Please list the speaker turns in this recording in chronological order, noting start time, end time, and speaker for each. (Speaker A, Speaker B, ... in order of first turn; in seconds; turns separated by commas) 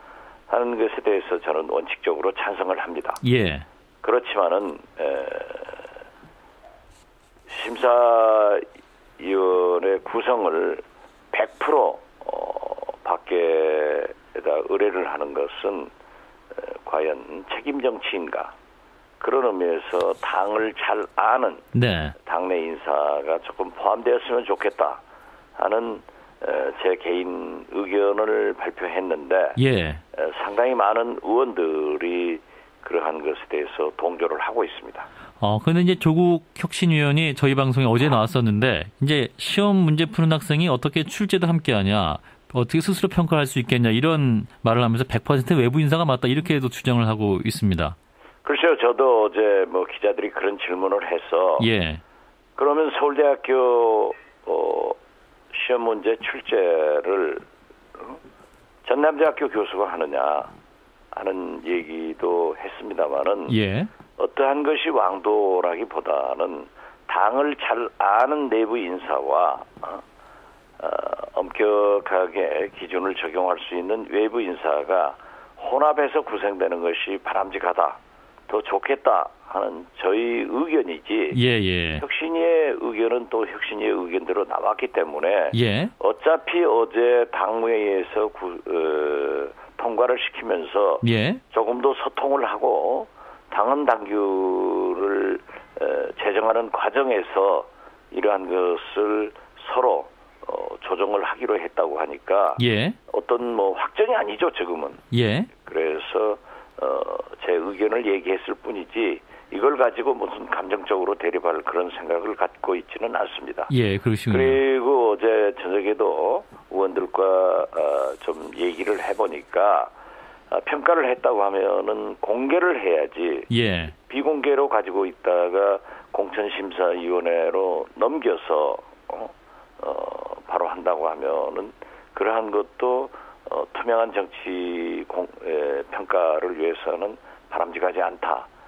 Speaker A: 0.5-3.2, Speaker B: 3.2-3.6, Speaker A: 4.0-5.9, Speaker A: 7.5-8.7, Speaker A: 9.2-15.9, Speaker A: 16.5-18.5, Speaker A: 19.2-25.0, Speaker B: 21.7-22.2, Speaker A: 25.6-29.6, Speaker B: 29.6-30.0, Speaker A: 30.1-35.1, Speaker B: 35.4-48.0, Speaker A: 48.4-51.7, Speaker B: 51.6-52.0, Speaker A: 52.5-55.0, Speaker A: 55.5-57.5, Speaker A: 58.8-60.5, Speaker A: 61.1-63.6, Speaker B: 63.5-63.9, Speaker A: 64.2-70.0, Speaker A: 70.8-81.4, Speaker B: 81.3-82.0, Speaker A: 82.0-113.7, Speaker B: 85.5-85.9, Speaker B: 91.0-91.4, Speaker B: 102.6-103.0, Speaker B: 105.1-105.5, Speaker B: 113.7-114.6, Speaker A: 114.3-119.9, Speaker A: 120.5-138.5, Speaker B: 123.5-123.9